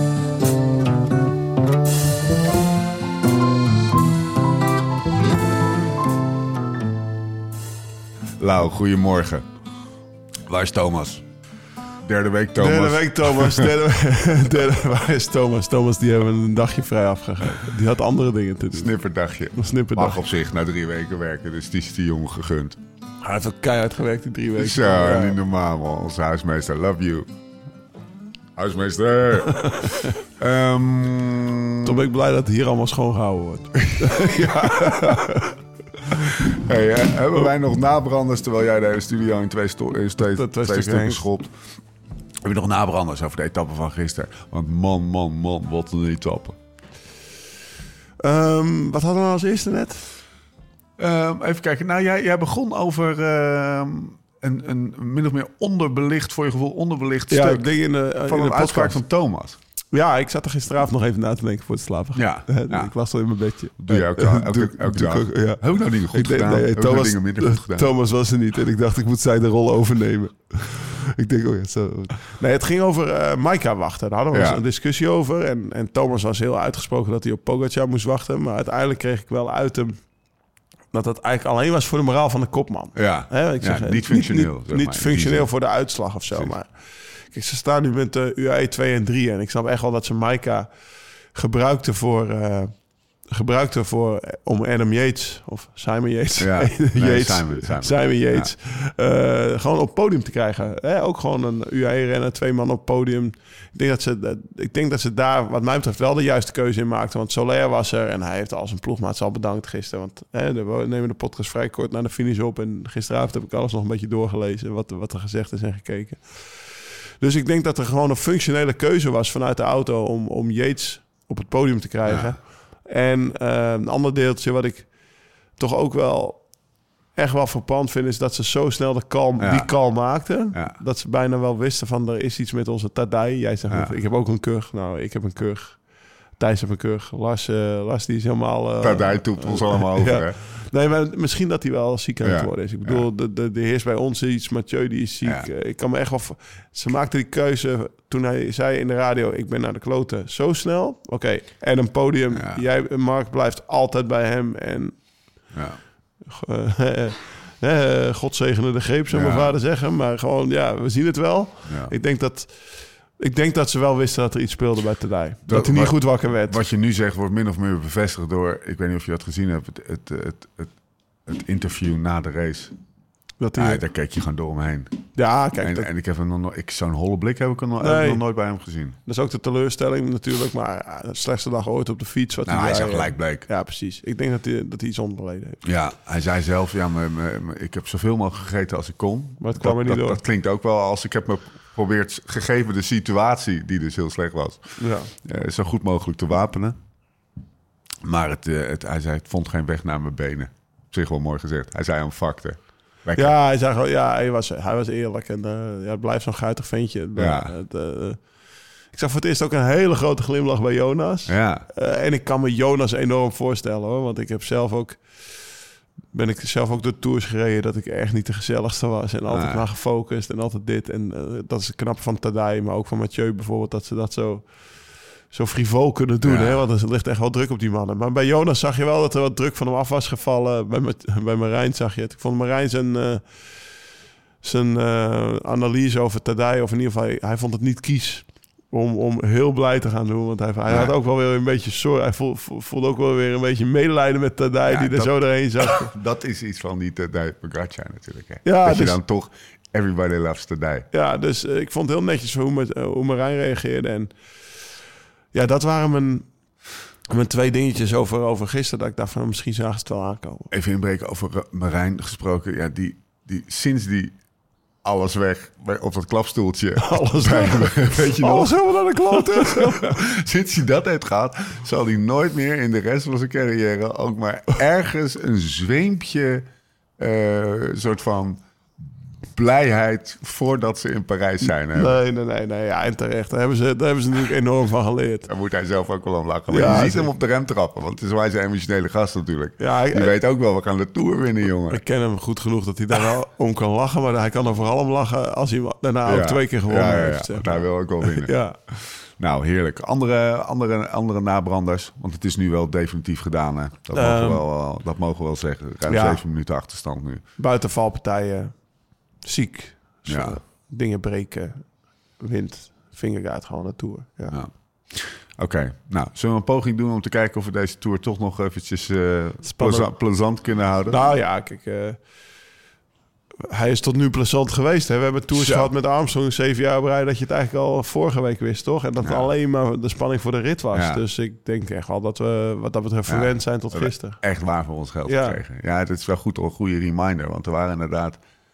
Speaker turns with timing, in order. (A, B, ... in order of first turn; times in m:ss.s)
0:08.4-0:09.5 A
0:10.5-0:11.2 A
0:12.0-0:13.8 A
0:12.6-0:18.9 B
0:18.7-0:22.8 A
0:19.6-0:20.2 B
0:23.2-0:25.4 B
0:24.6-0:27.3 A
0:28.6-0:32.0 A
0:31.8-0:35.6 B
0:34.0-0:35.1 A
0:36.1-0:36.4 B
0:36.3-0:41.5 A
0:40.2-0:41.3 B
0:42.4-0:46.6 A
0:48.2-0:50.1 B
0:51.0-0:57.7 A
0:57.3-0:59.0 B
0:58.3-0:59.6 A
0:59.9-1:20.0 B
1:02.2-1:02.9 A
1:03.8-1:08.0 A
1:14.3-1:14.6 A
1:20.9-1:26.7 B
1:23.0-1:25.5 A
1:26.3-1:26.6 A
1:27.3-1:30.7 B
1:31.3-1:32.7 B
1:33.3-1:56.7 B
1:36.4-1:38.5 A
1:57.2-2:04.9 B
2:02.1-2:02.4 A
2:05.6-2:06.4 B
2:07.2-2:15.8 B
2:09.4-2:09.7 A
2:13.7-2:14.0 A
2:16.4-2:35.0 B
2:18.8-2:20.4 A
2:22.2-2:23.1 A
2:25.2-2:25.5 A
2:32.3-2:32.6 A
2:35.5-2:35.8 A
2:36.3-2:46.6 B
2:39.1-2:39.6 A
2:41.7-2:41.9 A
2:45.5-2:50.7 A
2:51.3-2:52.7 A
2:53.4-2:53.8 B
2:53.6-2:54.9 A
2:55.2-2:55.9 B
2:55.6-2:59.0 A
2:57.8-2:58.2 B
2:59.1-3:05.6 B
3:02.5-3:03.5 A
3:05.6-3:14.6 A
3:09.4-3:10.2 B
3:14.8-3:15.1 B
3:15.2-3:16.8 A
3:18.0-3:23.4 A
3:23.2-3:28.2 B
3:27.2-3:27.5 A
3:28.9-3:35.0 B
3:31.3-3:31.7 A
3:36.1-3:44.5 B
3:39.3-3:39.6 A
3:45.3-3:53.2 B
3:46.2-3:46.7 A
3:54.4-4:05.9 B
4:00.7-4:00.9 A
4:04.7-4:10.9 A
4:08.4-4:09.0 B
4:10.9-4:14.1 B
4:15.3-4:16.3 B
4:17.1-4:20.5 B
4:20.5-4:24.1 A
4:24.8-4:36.4 A
4:26.8-4:30.0 B
4:37.0-4:38.4 A
4:39.4-4:42.0 A
4:41.6-4:45.3 B
4:45.3-4:51.8 A
4:46.5-4:47.1 B
4:49.6-4:50.2 B
4:51.7-4:58.6 B
4:56.0-5:07.2 A
5:03.9-5:04.4 B
5:05.9-5:06.2 B
5:07.4-5:08.6 B
5:09.2-5:11.7 B
5:10.1-5:10.4 A
5:12.2-5:14.4 B
5:14.3-5:21.1 A
5:19.4-5:19.9 B
5:20.9-5:22.0 B
5:23.5-5:34.2 B
5:25.3-5:25.7 A
5:29.0-5:29.3 A
5:30.7-5:31.0 A
5:33.1-5:38.2 A
5:35.1-5:35.4 B